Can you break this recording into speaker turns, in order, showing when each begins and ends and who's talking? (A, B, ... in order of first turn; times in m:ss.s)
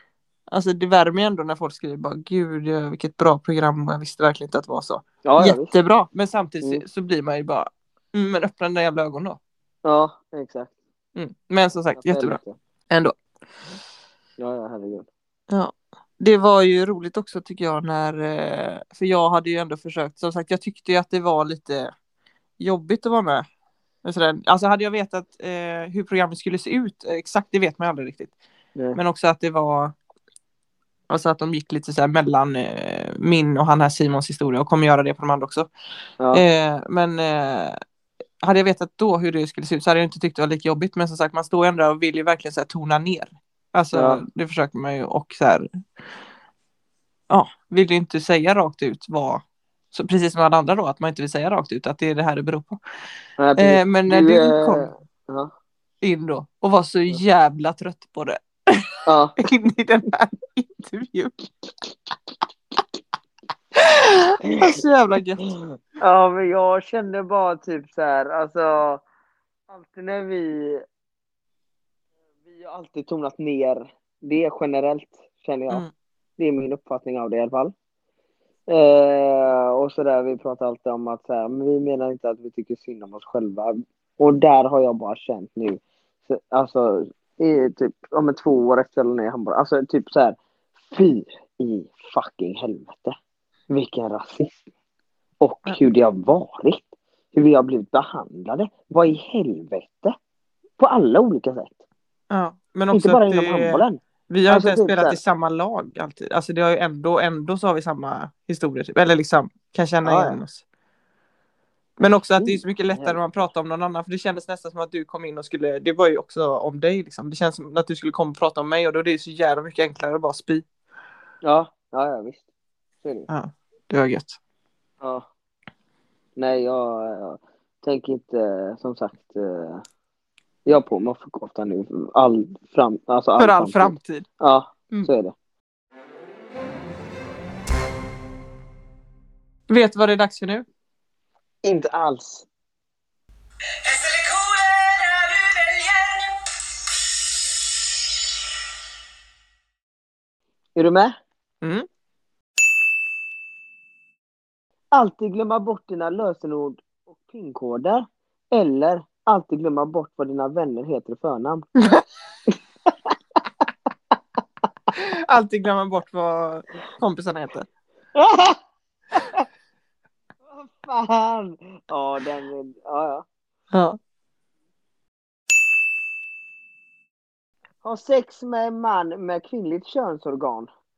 0:00.5-0:09.4 A
0:05.2-0:05.7 B
0:09.8-0:10.7 B
0:11.1-0:13.2 A
0:11.9-0:12.6 B
0:14.4-0:15.1 B
0:15.5-0:21.9 A
0:22.6-0:23.4 A
0:24.0-0:28.3 A
0:28.9-0:29.9 A
0:31.1-0:35.7 A
0:36.3-0:37.8 A
0:38.4-0:45.7 A
0:43.9-0:44.2 B
0:47.3-0:52.8 A
0:53.4-0:55.5 B
0:53.6-0:54.9 A
0:56.0-1:01.5 A
0:59.0-0:59.4 B
1:03.7-1:05.5 A
1:06.0-1:09.0 B
1:09.7-1:10.8 B
1:12.5-1:15.8 B
1:16.4-1:17.7 B
1:18.7-1:30.4 B
1:30.9-1:33.2 B
1:33.7-1:34.6 B
1:35.4-1:40.2 B
1:40.8-1:41.8 B
1:42.3-1:50.6 A
1:42.9-1:45.2 B
1:50.0-1:50.4 B
1:52.0-2:00.6 A
1:52.4-1:53.4 B
2:01.4-2:02.4 B
2:03.0-2:03.3 B
2:03.3-2:04.4 A
2:05.0-2:05.3 B
2:06.4-2:09.8 B
2:10.6-2:15.3 B
2:13.4-2:14.3 A
2:19.7-2:20.6 A
2:21.6-2:22.4 B
2:23.8-2:26.3 A
2:30.8-2:31.2 B
2:31.6-2:31.9 A
2:34.9-2:41.7 B
2:41.8-2:42.0 A
2:42.5-2:42.9 B
2:44.9-2:47.7 A
2:48.1-2:48.6 B
2:49.1-2:49.4 B
2:50.5-2:53.2 B
2:53.7-2:54.0 A
2:57.8-3:00.7 B